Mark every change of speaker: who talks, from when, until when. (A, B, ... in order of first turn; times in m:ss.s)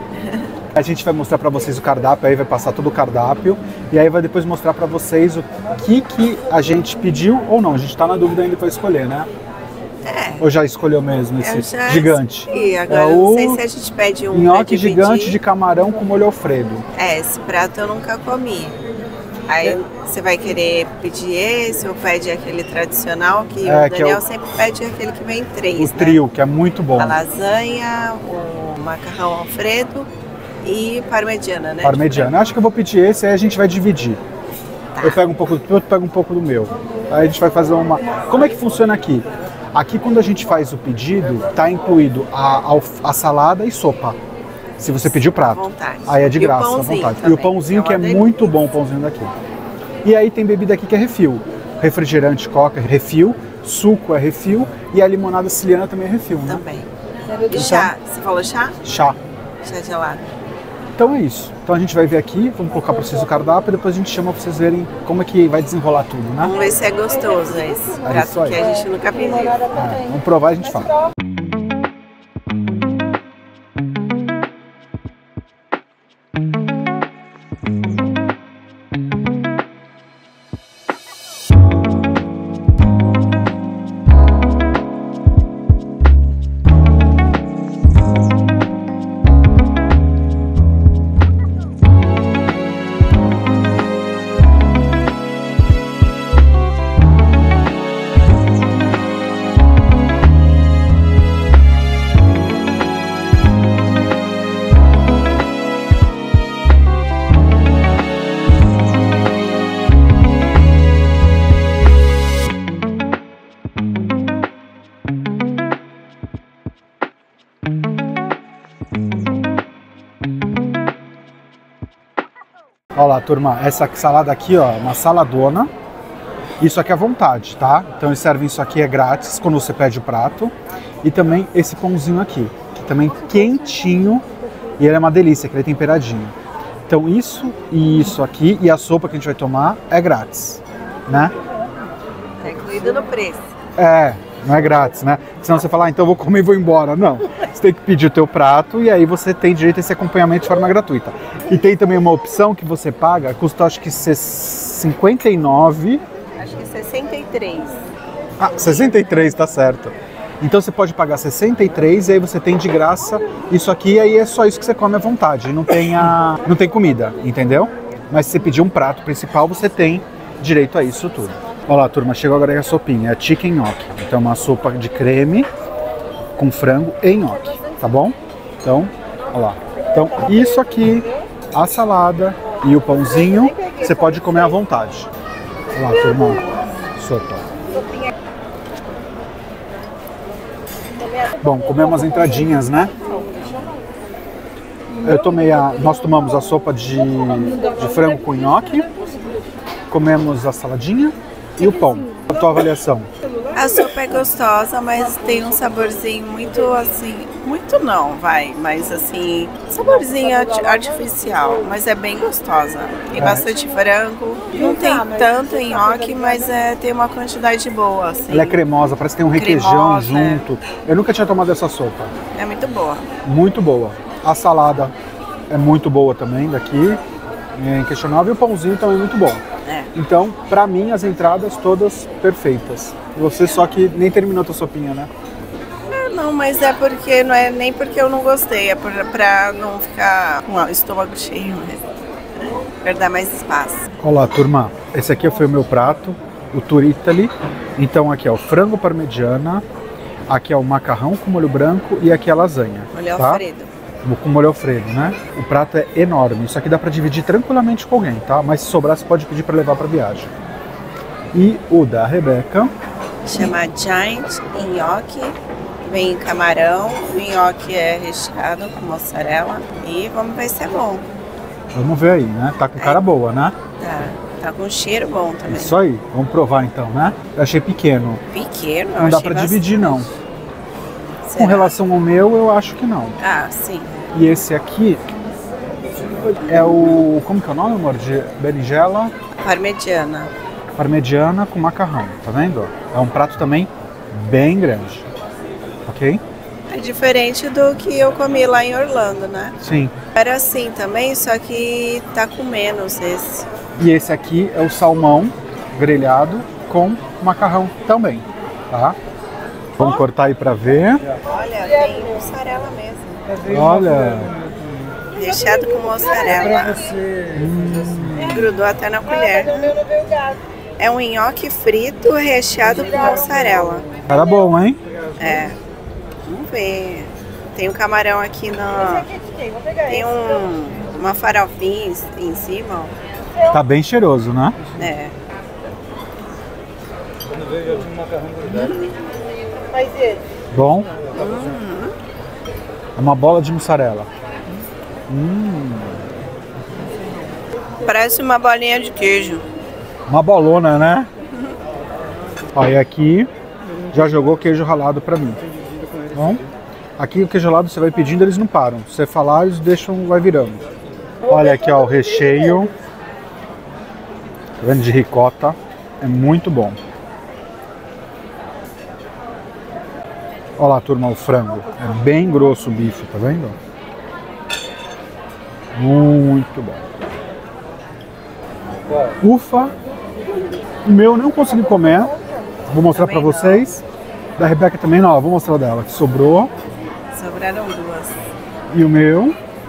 0:00.2-0:00.5 A
0:00.8-0:09.3 B
0:10.0-0:10.5 A
0:10.4-0:13.6 B
0:11.4-0:15.4 A
0:14.3-0:16.8 B
0:17.0-0:18.8 A
0:19.5-0:26.2 A
0:23.6-0:24.2 B
0:25.8-0:27.2 B
0:27.0-0:30.1 A
0:30.6-0:32.3 A
0:31.8-0:34.2 B
0:34.9-0:35.2 A
0:35.0-0:44.2 B
0:44.8-0:49.3 B
0:45.1-0:48.5 A
0:50.0-0:56.6 B
0:56.5-0:56.9 A
0:57.4-0:58.8 A
0:57.5-0:57.9 B
0:58.8-0:59.2 B
0:59.6-1:00.2 A
1:01.0-1:06.5 B
1:06.4-1:09.7 A
1:08.0-1:08.6 B
1:09.7-1:11.0 B
2:03.0-2:05.7 B
2:06.6-2:14.2 B
2:14.8-2:16.3 B
2:16.9-2:21.3 B
2:22.4-2:23.5 A
2:23.8-2:36.0 B
2:36.4-2:37.8 A
2:38.4-2:55.5 B
2:56.4-3:05.1 B
3:05.8-3:06.4 B
3:07.0-3:07.5 B
3:11.4-3:12.9 B
3:15.0-3:18.9 B
3:19.9-3:23.1 B
3:23.5-3:38.6 A
3:33.2-3:33.5 B
3:38.3-3:42.1 B
3:39.3-3:40.4 A
3:42.3-3:43.0 A
3:43.2-3:44.9 B
3:45.5-3:47.0 B
3:47.6-3:49.4 B
3:49.6-3:49.9 A
3:50.0-3:55.1 B
3:55.9-4:01.8 A
4:02.4-4:03.8 A
4:04.0-4:09.6 B
4:10.3-4:13.4 B
4:12.9-4:13.7 A
4:14.0-4:20.3 B
4:21.3-4:22.7 B
4:23.2-4:31.0 A
4:31.7-4:33.5 B
4:33.8-4:35.8 A
4:35.5-4:38.2 B
4:38.3-4:40.1 A
4:39.0-4:40.1 B
4:41.3-4:41.8 A
4:41.4-4:43.2 B
4:43.2-4:44.0 A
4:44.1-4:45.0 B
4:46.4-4:49.1 B
4:49.4-4:50.3 A
4:50.8-4:55.1 B
4:55.8-4:56.2 B
4:56.7-4:59.5 A
4:59.6-4:59.9 B
5:00.1-5:03.5 A
5:03.8-5:09.0 B
5:09.8-5:11.0 B
5:11.2-5:13.2 A
5:13.4-5:14.3 B
5:15.1-5:17.0 A
5:17.3-5:18.6 B
5:18.2-5:19.8 A
5:20.8-5:23.9 A
5:24.1-5:24.8 B
5:25.2-5:25.6 A
5:26.2-5:29.1 A
5:29.8-5:32.9 A
5:33.4-5:34.6 B
5:34.8-5:35.1 A
5:38.5-5:38.9 A
5:40.5-5:40.9 B
5:41.1-5:41.9 A
5:43.0-5:44.1 B
5:45.1-5:46.0 B
5:47.8-5:49.4 A
5:50.1-5:51.1 B
5:52.5-5:53.3 B
5:53.9-5:55.4 B
5:56.1-5:56.4 B
5:57.0-6:00.6 B
6:01.3-6:02.7 B
6:04.6-6:06.8 B
6:10.6-6:13.6 B
6:15.8-6:16.8 B
6:19.2-6:19.7 B
6:20.8-6:22.1 B
6:22.7-6:23.8 B
6:22.9-6:23.7 A
6:24.4-6:26.5 B
6:27.1-6:28.1 A
6:28.7-6:29.4 B